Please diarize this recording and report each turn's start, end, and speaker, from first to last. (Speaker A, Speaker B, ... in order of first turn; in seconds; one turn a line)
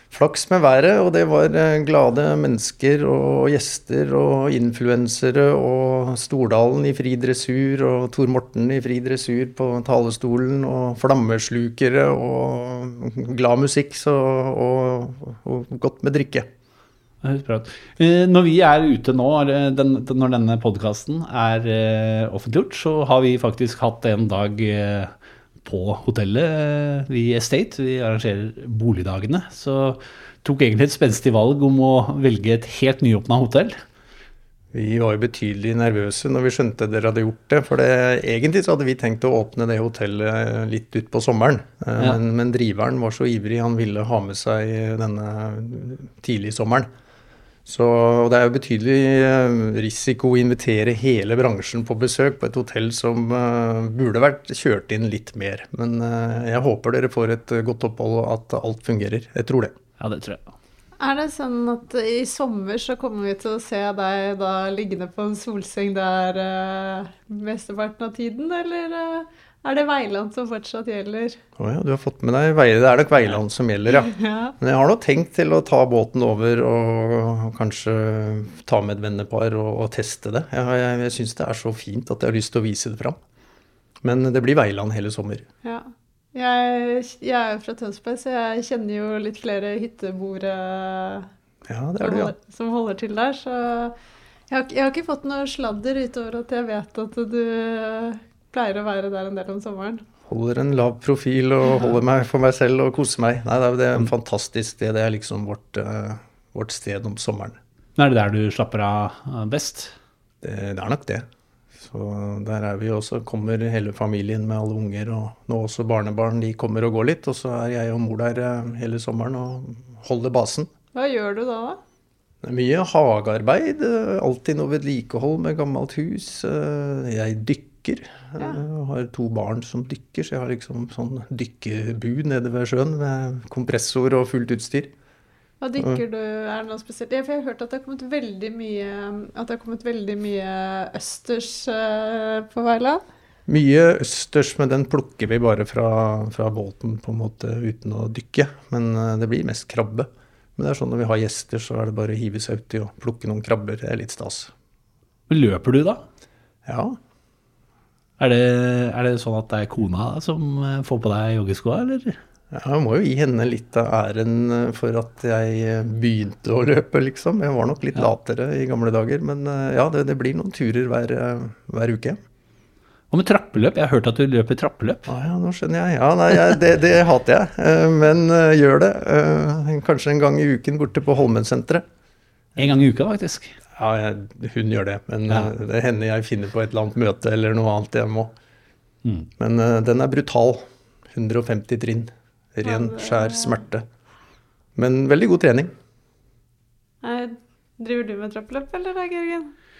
Speaker A: 0.1-16.5
Speaker B: 17.2-33.8
Speaker A: 34.7-46.9
Speaker A: 47.6-59.7
Speaker B: 60.0-60.5
Speaker C: 61.0-71.4
Speaker A: 71.6-83.2
Speaker C: 74.0-74.5
Speaker A: 84.0-85.5
Speaker C: 85.6-91.3
Speaker A: 91.7-92.3
Speaker C: 92.0-93.9
Speaker C: 94.5-100.0
Speaker A: 100.3-107.6
Speaker B: 108.0-109.9
Speaker A: 110.4-111.2
Speaker A: 111.8-120.7
Speaker C: 120.9-121.8
Speaker A: 122.4-134.9
Speaker C: 135.6-143.0
Speaker A: 143.5-154.5
Speaker B: 155.3-156.0
Speaker A: 156.7-157.0
Speaker B: 158.2-162.2
Speaker A: 162.5-172.2
Speaker B: 173.1-175.1
Speaker A: 175.1-181.8
Speaker B: 182.6-183.6
Speaker A: 183.7-188.3
Speaker B: 189.0-189.3
Speaker A: 189.4-193.8
Speaker C: 192.6-193.5
Speaker A: 194.8-195.7
Speaker C: 197.0-199.5